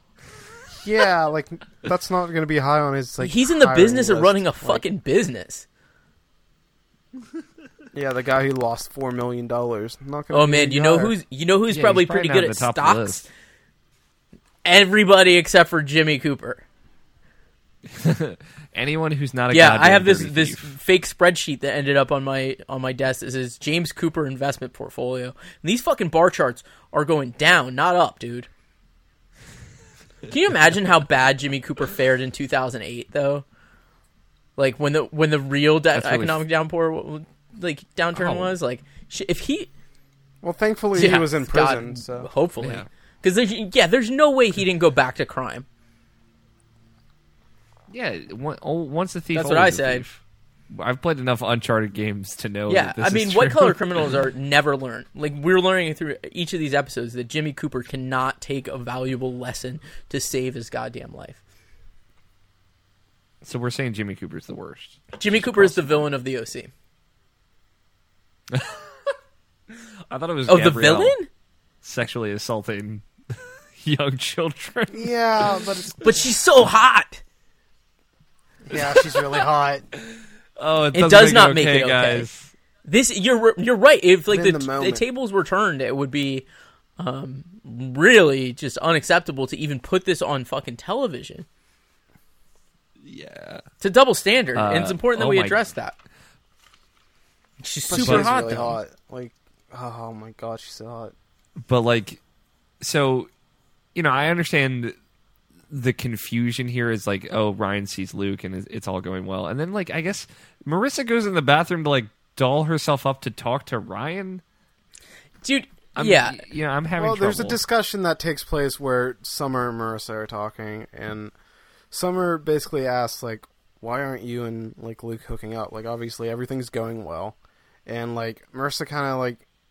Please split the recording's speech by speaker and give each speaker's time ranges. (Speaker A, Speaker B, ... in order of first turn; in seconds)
Speaker A: 0.8-4.8, 7.9-11.1, 40.4-42.3, 74.9-76.0, 78.7-79.8, 84.3-85.0, 97.9-101.1, 117.0-121.3, 121.9-129.4
Speaker B: 3.2-5.7, 10.3-13.2, 14.6-16.6, 19.5-28.5, 30.3-33.4, 34.6-39.7, 41.0-45.6, 49.3-50.0, 52.7-61.4, 65.2-66.7, 70.5-71.3, 76.0-77.2, 80.9-82.3, 82.8-86.5, 87.0-91.5, 93.8-96.0, 97.6-98.8, 115.4-116.4
Speaker C: 11.7-13.2, 17.9-20.7, 35.9-36.4, 38.1-38.5, 42.6-42.9, 47.9-50.2, 50.7-54.2, 63.4-66.0, 68.5-68.8, 70.1-71.2, 71.8-73.0, 73.8-75.6, 80.6-82.5, 93.0-93.6, 94.5-95.7, 98.0-98.3, 101.6-102.2, 102.8-103.3, 103.9-104.9, 105.7-114.4, 116.0-117.6